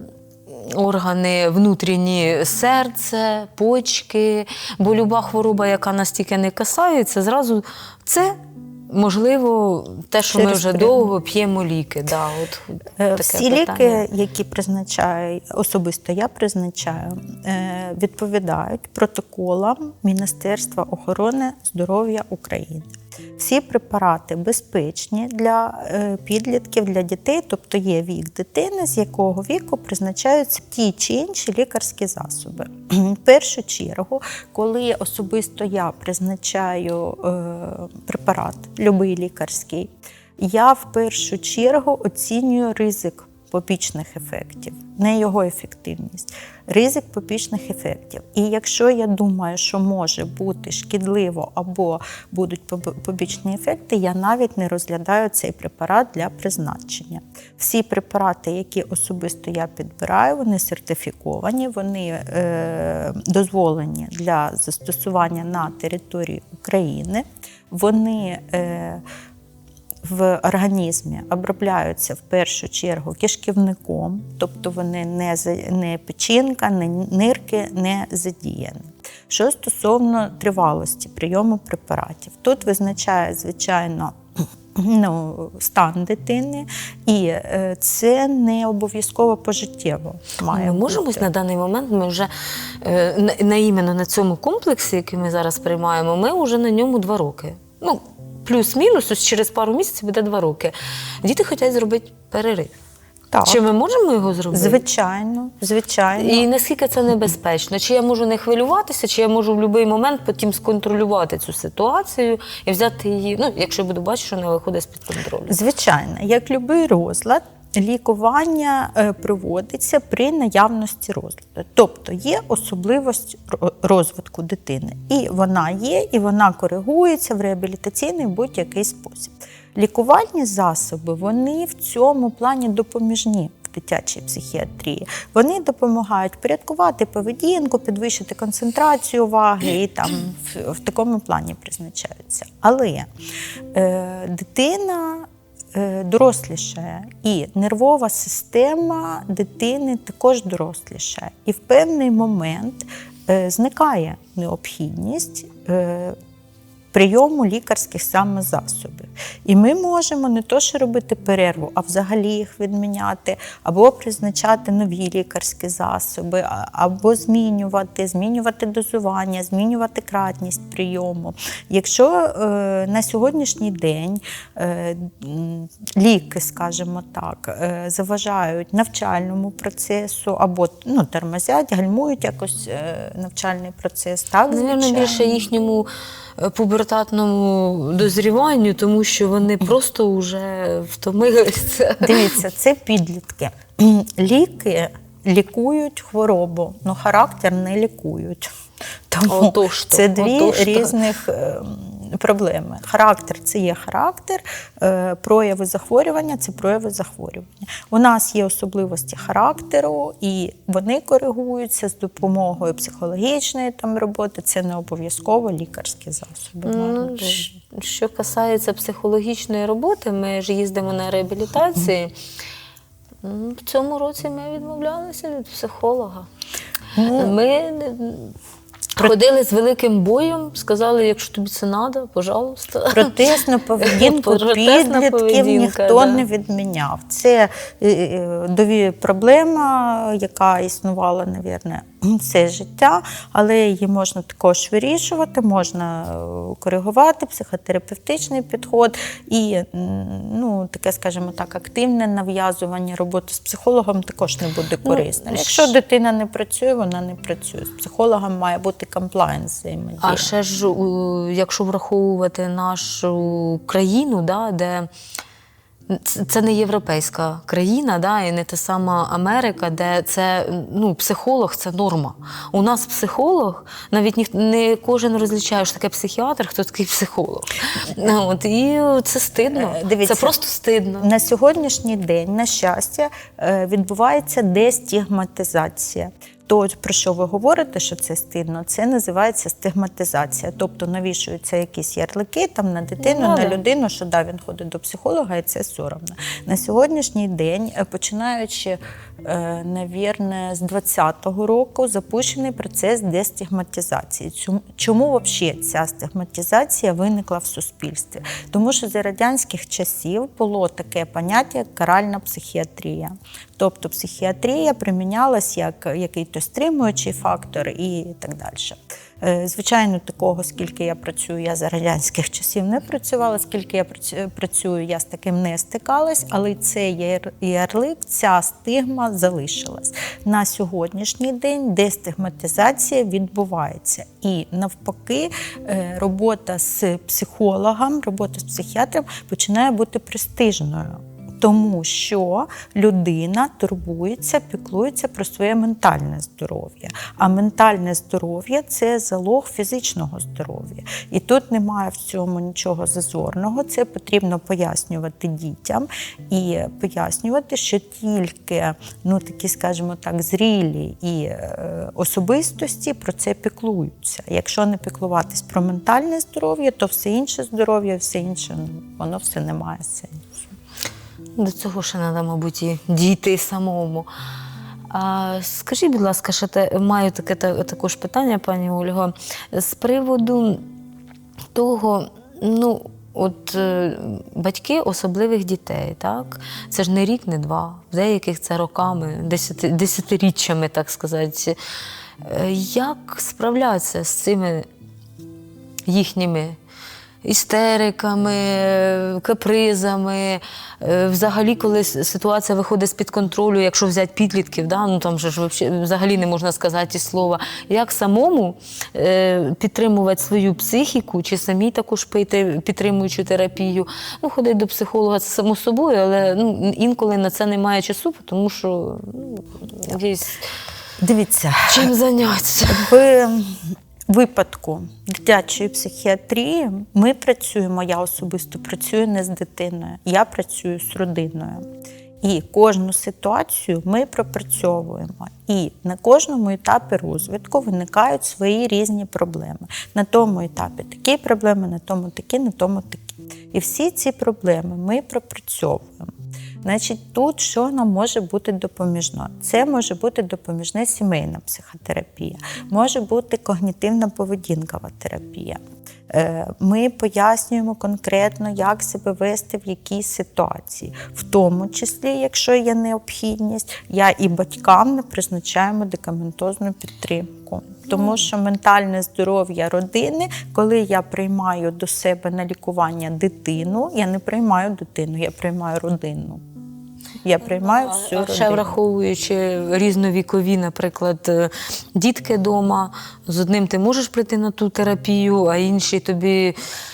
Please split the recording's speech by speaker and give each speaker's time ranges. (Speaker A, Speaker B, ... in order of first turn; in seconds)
Speaker A: 0.5-14.0, 90.5-102.7, 103.4-104.8, 106.2-115.6, 184.5-185.9, 186.4-192.4, 199.3-201.0, 216.6-222.1, 223.2-226.3, 227.1-228.3, 229.0-236.2, 254.8-255.7, 260.0-264.9, 265.9-281.1, 293.0-293.6, 371.4-374.1, 374.9-380.7, 381.5-391.6, 392.2-394.7, 395.9-396.6, 397.2-420.5, 421.7-422.9, 477.6-486.6
Speaker B: 10.3-11.1, 13.0-69.0, 70.0-84.2, 84.7-91.3, 103.3-103.6, 104.5-106.5, 115.5-143.1, 143.7-156.2, 156.9-185.5, 192.0-198.5, 199.1-217.6, 227.0-227.3, 232.9-260.3, 279.5-280.4, 281.0-370.5, 421.0-421.9, 422.7-431.7, 432.2-476.4, 477.2-478.7